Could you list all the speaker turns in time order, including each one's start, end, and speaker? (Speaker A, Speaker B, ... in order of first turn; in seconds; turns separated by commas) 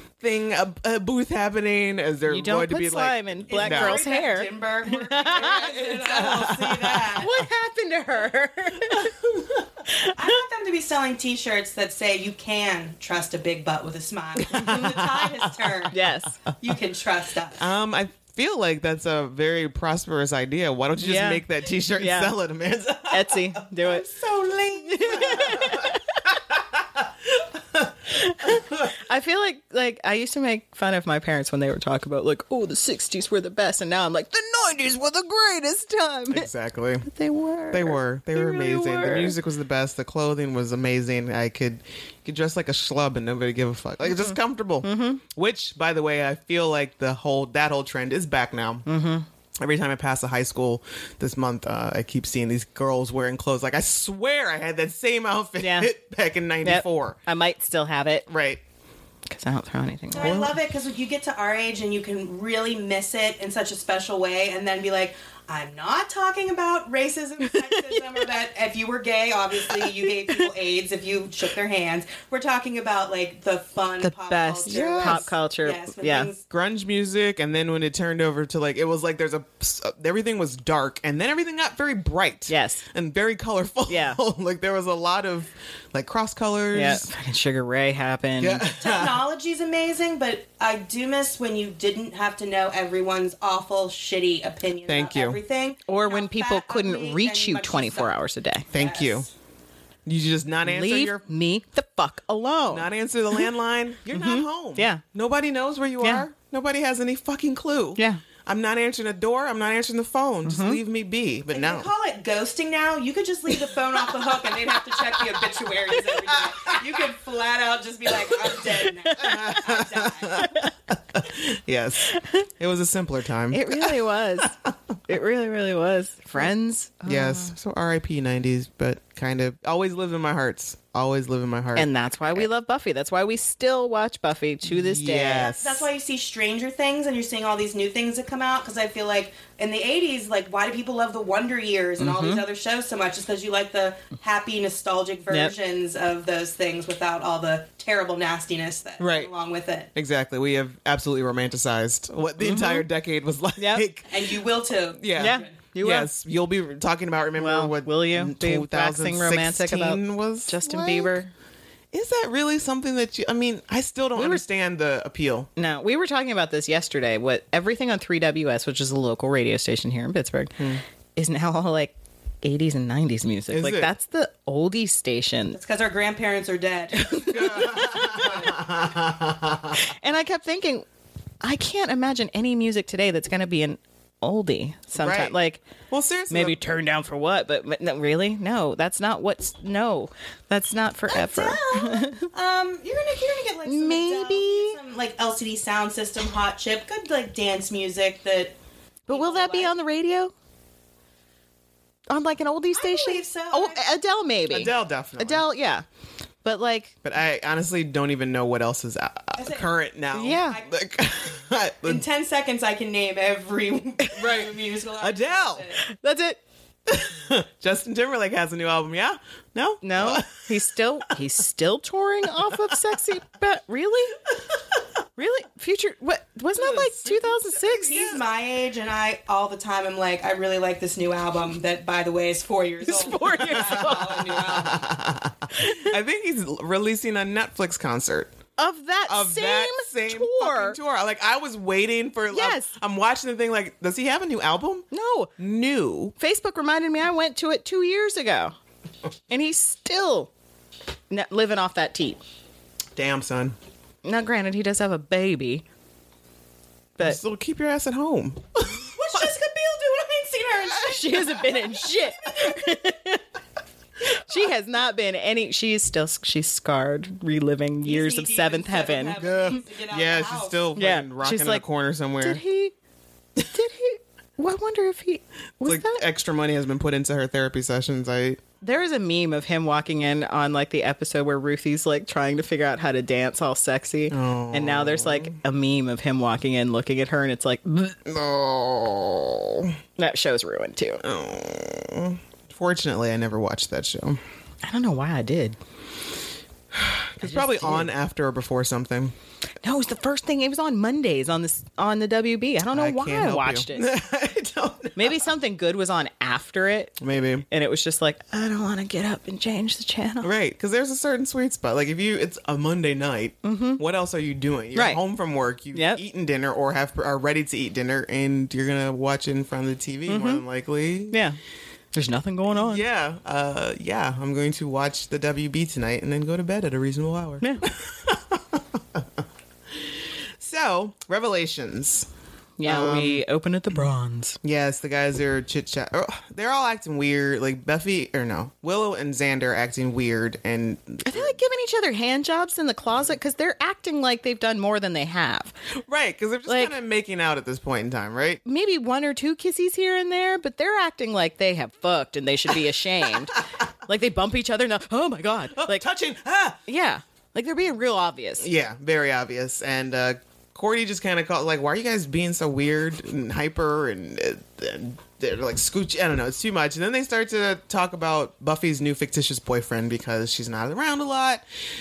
Speaker A: 0.2-4.0, Speaker B: 2.3-6.0, Speaker C: 3.5-7.4, Speaker A: 6.0-7.1, Speaker B: 7.2-9.1, Speaker A: 8.9-9.6, Speaker B: 9.9-10.2, Speaker C: 10.1-15.9, Speaker A: 14.4-15.5, Speaker B: 14.6-14.9, Speaker B: 15.9-16.4, Speaker C: 16.6-17.6, Speaker A: 17.6-23.6, Speaker B: 21.0-22.4, Speaker B: 23.1-24.0, Speaker C: 23.8-25.6, Speaker B: 24.8-26.0, Speaker A: 25.2-25.9, Speaker A: 27.0-27.9, Speaker B: 28.1-36.5, Speaker A: 36.3-37.1, Speaker B: 37.0-39.4, Speaker A: 37.7-48.9, Speaker B: 44.0-45.2, Speaker B: 48.9-49.2, Speaker A: 49.6-57.2, Speaker B: 55.6-55.9, Speaker B: 56.6-58.3, Speaker A: 58.3-58.6, Speaker B: 59.3-60.4, Speaker C: 60.1-76.4, Speaker A: 60.2-60.5, Speaker B: 69.7-70.4, Speaker B: 74.0-76.3, Speaker A: 74.7-75.3, Speaker A: 76.5-87.1, Speaker B: 82.5-82.8, Speaker B: 83.9-84.2, Speaker B: 86.7-88.6, Speaker A: 88.4-89.2, Speaker C: 88.7-99.3, Speaker A: 94.8-95.4, Speaker B: 95.9-98.6, Speaker A: 98.7-99.3, Speaker A: 100.0-101.2, Speaker B: 100.6-103.4, Speaker A: 102.7-111.9, Speaker B: 104.1-105.0, Speaker B: 106.0-106.3, Speaker B: 108.0-108.2, Speaker B: 110.5-110.8, Speaker C: 111.5-120.5, Speaker A: 116.3-116.7, Speaker B: 119.0-119.4, Speaker A: 119.2-124.5, Speaker B: 120.4-120.7, Speaker B: 122.1-122.4, Speaker B: 123.5-124.5, Speaker B: 125.1-127.5, Speaker A: 127.0-132.5, Speaker B: 131.7-135.5, Speaker A: 134.6-135.9, Speaker C: 135.5-149.9, Speaker B: 142.0-142.4, Speaker A: 149.0-149.3, Speaker A: 149.9-154.3, Speaker B: 152.4-152.8, Speaker B: 153.6-153.8, Speaker C: 154.1-155.6, Speaker A: 154.9-161.2, Speaker B: 155.2-156.1, Speaker B: 157.3-161.3, Speaker A: 161.9-165.5, Speaker B: 164.1-164.4, Speaker B: 165.6-170.6, Speaker A: 170.6-170.8, Speaker B: 171.2-175.6, Speaker A: 173.5-173.9, Speaker C: 175.5-178.4, Speaker A: 177.1-179.8, Speaker B: 177.4-178.4, Speaker B: 179.7-180.8, Speaker B: 181.4-185.6, Speaker A: 184.9-185.3, Speaker A: 185.9-186.6, Speaker B: 186.3-192.2, Speaker C: 191.1-198.5, Speaker B: 193.7-194.8, Speaker B: 199.1-200.3, Speaker C: 199.1-199.8, Speaker B: 202.1-205.8, Speaker C: 202.7-203.8, Speaker A: 204.5-205.4, Speaker B: 206.4-206.9, Speaker A: 207.0-212.0, Speaker C: 209.3-209.7, Speaker B: 210.1-210.6, Speaker C: 211.8-215.8, Speaker A: 214.2-215.7, Speaker B: 215.8-216.4, Speaker A: 216.9-220.7, Speaker B: 219.8-224.2, Speaker B: 225.2-227.9, Speaker A: 226.6-228.2, Speaker C: 227.8-234.9, Speaker B: 232.8-234.3, Speaker A: 233.4-238.3, Speaker B: 235.5-235.9, Speaker B: 238.6-240.8, Speaker A: 239.1-244.9, Speaker B: 242.3-242.7, Speaker B: 244.9-245.3, Speaker A: 245.4-246.1, Speaker B: 246.2-248.5, Speaker B: 249.3-250.3, Speaker B: 251.1-252.2, Speaker A: 252.9-253.6, Speaker B: 254.0-255.6, Speaker A: 257.0-259.2, Speaker C: 258.8-261.5, Speaker B: 260.8-263.2, Speaker B: 264.3-269.2, Speaker C: 267.8-270.6, Speaker A: 269.2-272.4, Speaker B: 270.8-271.6, Speaker B: 272.2-272.7, Speaker B: 273.5-276.0, Speaker A: 275.6-278.4, Speaker B: 278.6-287.9, Speaker A: 284.1-285.4, Speaker A: 288.0-289.8, Speaker B: 290.0-291.0, Speaker A: 291.0-294.2, Speaker B: 294.6-295.6, Speaker A: 296.7-299.1, Speaker B: 297.2-297.9, Speaker B: 299.6-303.9, Speaker A: 302.7-305.2, Speaker B: 304.9-307.0, Speaker A: 307.0-307.4, Speaker B: 307.5-310.3, Speaker A: 310.2-321.2, Speaker B: 313.4-313.8, Speaker B: 314.7-315.0, Speaker B: 315.7-316.0, Speaker B: 320.1-320.4, Speaker B: 321.1-321.4, Speaker B: 321.9-322.8, Speaker A: 322.5-329.1, Speaker B: 327.4-327.7, Speaker A: 330.4-332.1, Speaker B: 332.6-334.4, Speaker A: 332.6-333.2, Speaker A: 334.4-341.4, Speaker B: 341.0-345.5, Speaker A: 345.8-348.4, Speaker B: 346.5-346.8, Speaker B: 348.4-355.9, Speaker A: 355.5-356.6, Speaker B: 356.7-358.5, Speaker A: 358.4-371.4